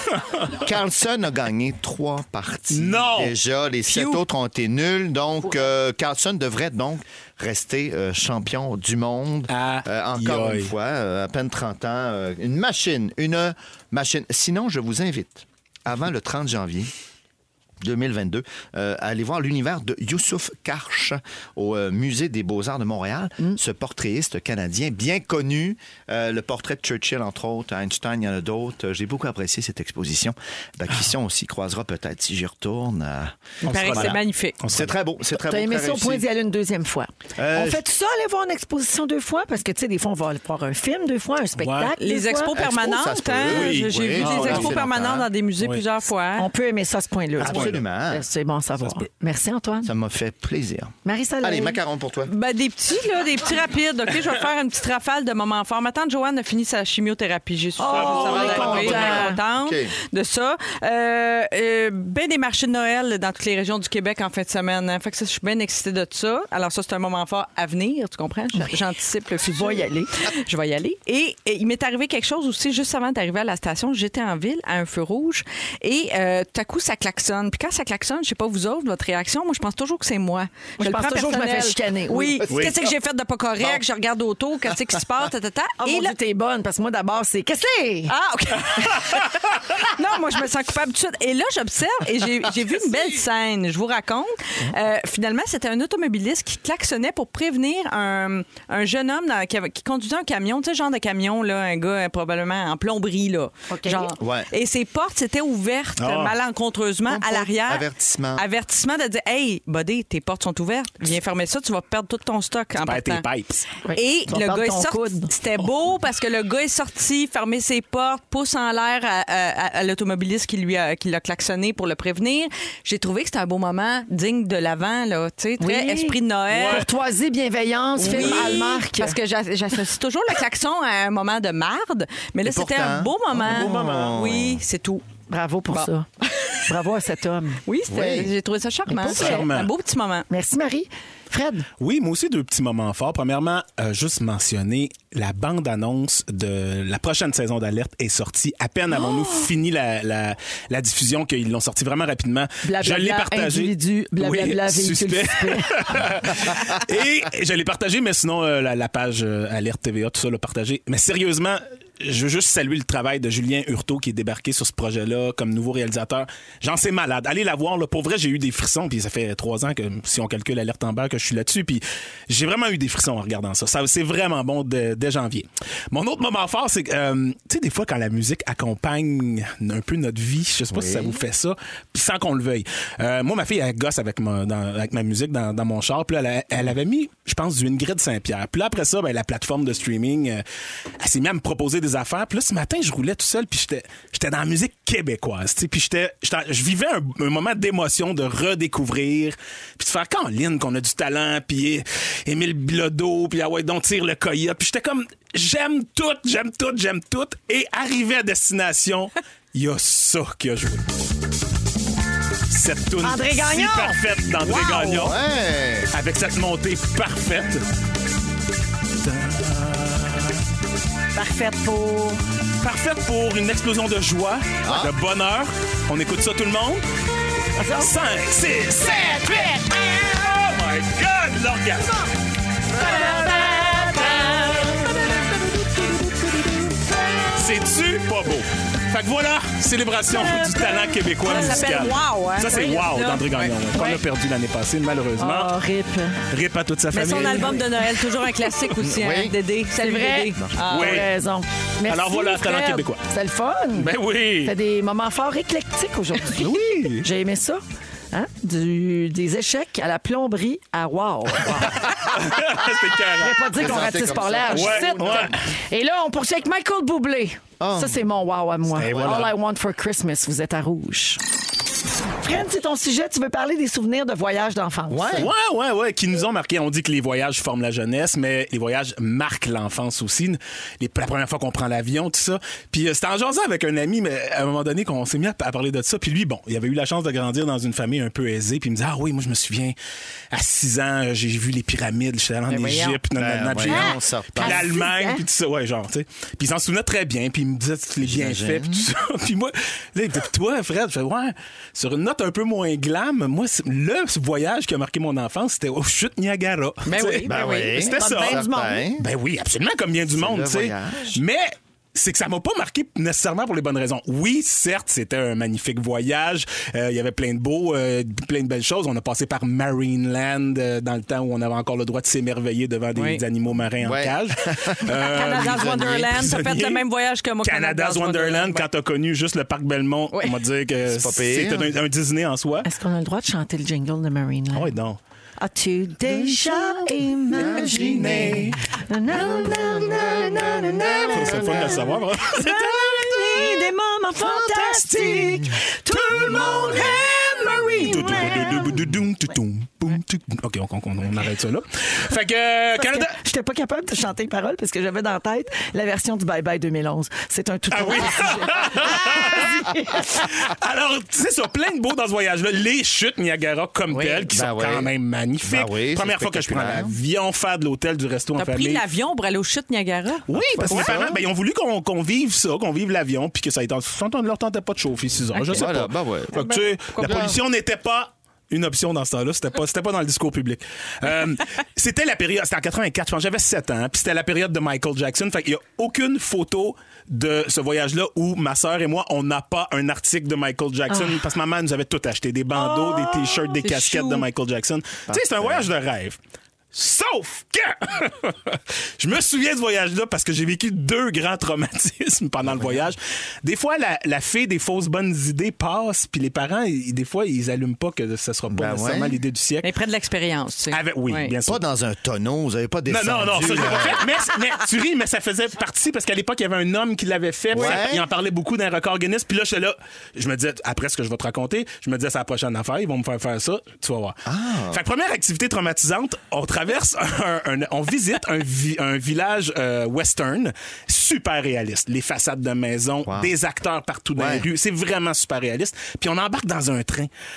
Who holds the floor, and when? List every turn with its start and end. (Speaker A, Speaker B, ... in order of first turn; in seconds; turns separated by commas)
Speaker A: 0.6-16.9, Speaker B: 2.7-3.3, Speaker C: 3.9-4.2, Speaker B: 9.5-10.7, Speaker A: 17.8-34.2, Speaker C: 33.6-34.6, Speaker B: 33.6-34.9, Speaker A: 34.7-36.2, Speaker D: 35.3-42.5, Speaker A: 37.4-37.8, Speaker B: 41.6-41.9, Speaker C: 42.0-46.5, Speaker A: 42.5-45.3, Speaker B: 43.5-44.8, Speaker D: 46.4-49.9, Speaker A: 47.4-48.2, Speaker B: 47.4-47.8, Speaker A: 49.8-52.3, Speaker D: 51.0-51.8, Speaker C: 52.3-86.2, Speaker D: 57.8-59.4, Speaker B: 57.9-59.1, Speaker A: 58.1-59.9, Speaker D: 69.5-70.1, Speaker D: 80.8-82.5, Speaker B: 82.5-82.8, Speaker D: 85.8-88.1, Speaker C: 88.1-113.2, Speaker D: 103.7-104.1, Speaker A: 104.2-104.5, Speaker B: 106.0-106.3, Speaker A: 107.1-108.4, Speaker B: 112.8-113.6, Speaker D: 113.8-115.3, Speaker C: 113.9-126.9, Speaker D: 125.6-129.2, Speaker B: 126.5-126.8, Speaker C: 128.0-135.1, Speaker A: 132.4-134.6, Speaker D: 135.3-136.1, Speaker C: 135.7-136.7, Speaker D: 136.6-137.6, Speaker C: 137.7-140.2, Speaker A: 137.9-138.3, Speaker D: 138.9-139.4, Speaker B: 139.1-139.7, Speaker D: 140.3-141.7, Speaker B: 141.8-190.4, Speaker D: 152.6-155.7, Speaker A: 180.7-181.2, Speaker B: 191.0-210.8, Speaker B: 212.5-215.2, Speaker D: 213.0-215.1, Speaker A: 214.9-215.9, Speaker B: 215.9-217.6, Speaker B: 219.0-220.4, Speaker D: 221.1-222.2, Speaker B: 222.6-226.8, Speaker A: 224.6-224.9, Speaker D: 227.6-227.9, Speaker B: 227.8-231.9, Speaker D: 229.1-229.6, Speaker D: 232.7-235.2, Speaker B: 232.8-234.5, Speaker D: 235.7-236.8, Speaker B: 237.3-245.5, Speaker D: 240.2-240.6, Speaker C: 241.2-243.6, Speaker D: 241.2-241.7, Speaker D: 243.7-244.0, Speaker D: 245.2-246.2, Speaker B: 246.3-247.7, Speaker C: 246.9-251.1, Speaker A: 248.8-249.3, Speaker D: 249.8-253.9, Speaker B: 250.7-251.1, Speaker B: 251.9-253.0, Speaker B: 253.8-254.5, Speaker D: 254.4-257.6, Speaker B: 256.3-257.1, Speaker D: 258.1-262.1, Speaker B: 261.5-265.3, Speaker D: 263.2-271.2, Speaker A: 263.5-265.4, Speaker A: 267.6-268.0, Speaker A: 268.7-269.3, Speaker B: 268.8-269.3, Speaker D: 272.2-275.2, Speaker A: 274.9-275.3, Speaker B: 275.1-289.7, Speaker B: 290.3-308.4, Speaker C: 292.5-293.0, Speaker A: 293.1-294.7, Speaker D: 294.4-295.2, Speaker A: 298.0-298.9, Speaker C: 306.9-307.6, Speaker A: 307.2-309.1, Speaker D: 307.3-308.8, Speaker B: 309.0-326.8, Speaker A: 310.1-311.2, Speaker C: 322.9-323.2, Speaker A: 323.8-326.0, Speaker C: 325.1-328.7, Speaker B: 327.4-332.7, Speaker C: 330.1-330.4, Speaker A: 330.8-331.7, Speaker D: 332.6-334.7, Speaker B: 334.5-335.0, Speaker D: 335.4-348.8, Speaker A: 337.3-338.6, Speaker B: 337.7-338.5, Speaker A: 339.1-342.0, Speaker B: 341.1-343.6, Speaker B: 344.4-345.4, Speaker B: 345.9-347.0, Speaker B: 347.5-353.1, Speaker D: 352.8-360.2, Speaker B: 357.7-368.8, Speaker C: 363.9-364.3, Speaker A: 364.3-364.9, Speaker A: 365.4-366.9, Speaker C: 368.4-371.0, Speaker B: 370.3-396.2, Speaker A: 370.5-371.2, Speaker C: 375.3-375.7, Speaker A: 375.5-376.4, Speaker C: 376.3-377.1, Speaker A: 377.0-377.4, Speaker C: 392.6-394.2, Speaker A: 395.1-395.7, Speaker B: 396.7-409.7, Speaker A: 402.4-402.9, Speaker A: 408.5-409.2, Speaker C: 409.6-411.3, Speaker B: 410.7-411.6, Speaker A: 411.5-414.1, Speaker B: 412.9-424.2, Speaker A: 417.5-418.1, Speaker A: 424.2-424.8, Speaker B: 424.7-437.1, Speaker A: 433.1-433.3, Speaker A: 434.1-434.5